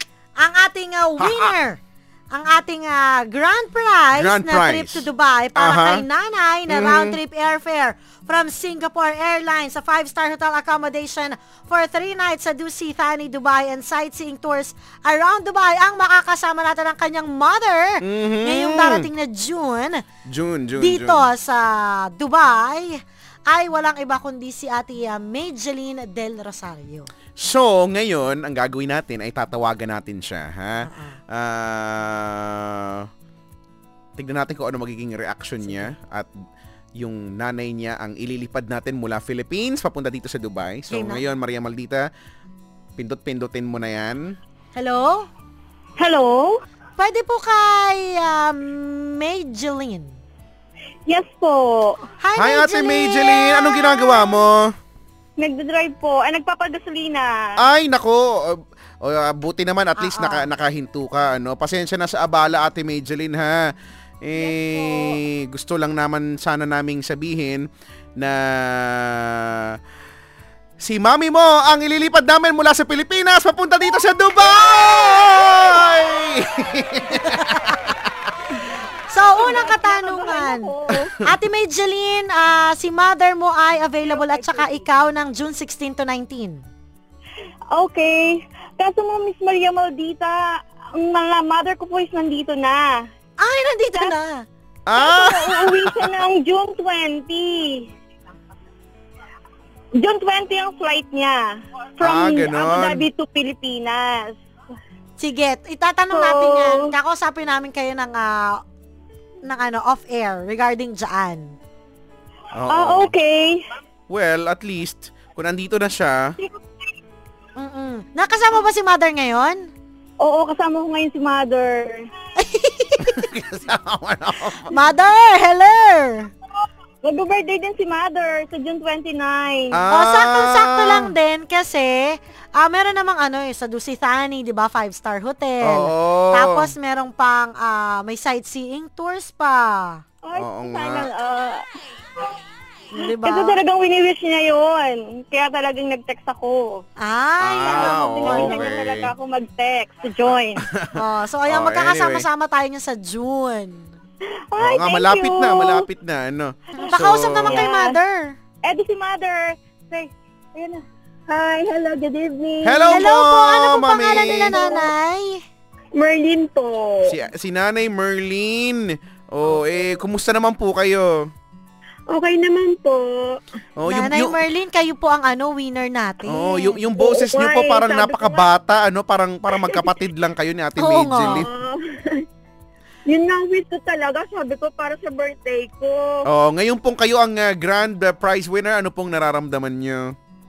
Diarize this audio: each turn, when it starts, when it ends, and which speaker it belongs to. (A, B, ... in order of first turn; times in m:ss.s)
0:00.4-0:01.8 A
0:01.2-0:01.5 B
0:02.3-0:20.0 A
0:04.2-0:06.0 B
0:06.7-0:07.2 B
0:18.0-0:19.1 B
0:20.3-0:21.3 B
0:20.8-0:27.1 A
0:27.4-0:33.0 B
0:30.8-0:31.2 A
0:34.2-0:36.3 B
0:37.0-0:42.0 B
0:40.9-0:41.2 A
0:43.0-0:44.4 B
0:44.7-0:45.3 A
0:46.0-0:46.6 C
0:47.0-0:50.1 A
0:51.1-0:52.0 C
0:52.2-0:54.4 A
0:52.4-0:54.7 B
0:55.4-0:57.3 C
0:57.6-1:03.6 B
1:00.0-1:00.5 A
1:04.2-1:07.6 B
1:04.3-1:05.2 C
1:08.2-1:09.8 B
1:10.8-1:18.1 B
1:17.3-1:17.8 A
1:19.1-1:26.6 A
1:19.4-1:21.2 C
1:24.1-1:24.8 C
1:27.7-1:30.4 C
1:31.0-1:32.9 C
1:33.4-1:34.4 A
1:34.9-1:36.2 B
1:35.0-1:37.9 C
1:40.0-1:41.4 C
1:42.0-1:44.3 C
1:42.0-1:43.1 B
1:45.2-1:48.6 A
1:46.1-1:46.9 C
1:49.4-1:51.6 A
1:52.5-1:53.1 B
1:52.7-1:53.6 C
1:54.1-1:56.3 B
1:57.6-1:59.7 A
2:00.2-2:02.0 C
2:02.4-2:03.3 A
2:03.0-2:04.8 B
2:04.7-2:06.3 A
2:07.0-2:09.8 C
2:09.7-2:11.1 B
2:09.9-2:20.0 A
2:15.6-2:16.7 B
2:20.2-2:21.6 C
2:20.3-2:21.1 B
2:22.9-2:23.6 A
2:23.2-2:26.8 C
2:27.0-2:28.7 A
2:27.4-2:29.1 B
2:27.7-2:30.6 C
2:30.6-2:32.2 B
2:30.9-2:33.9 A
2:34.5-2:35.8 C
2:34.6-2:37.7 B
2:36.8-2:38.3 A
2:37.5-2:37.9 C
2:38.6-2:43.0 C
2:42.6-2:44.6 B
2:42.9-2:45.4 A
2:44.2-2:44.9 C
2:45.9-2:47.1 C
2:47.0-2:51.1 B
2:52.1-2:53.4 C
2:53.8-2:54.4 B
2:53.8-2:56.8 A
2:56.3-3:01.5 B
2:57.0-2:58.5 C
2:59.5-3:00.0 C
3:00.8-3:01.5 A
3:01.3-3:02.2 C
3:03.1-3:06.1 C
3:06.2-3:10.1 B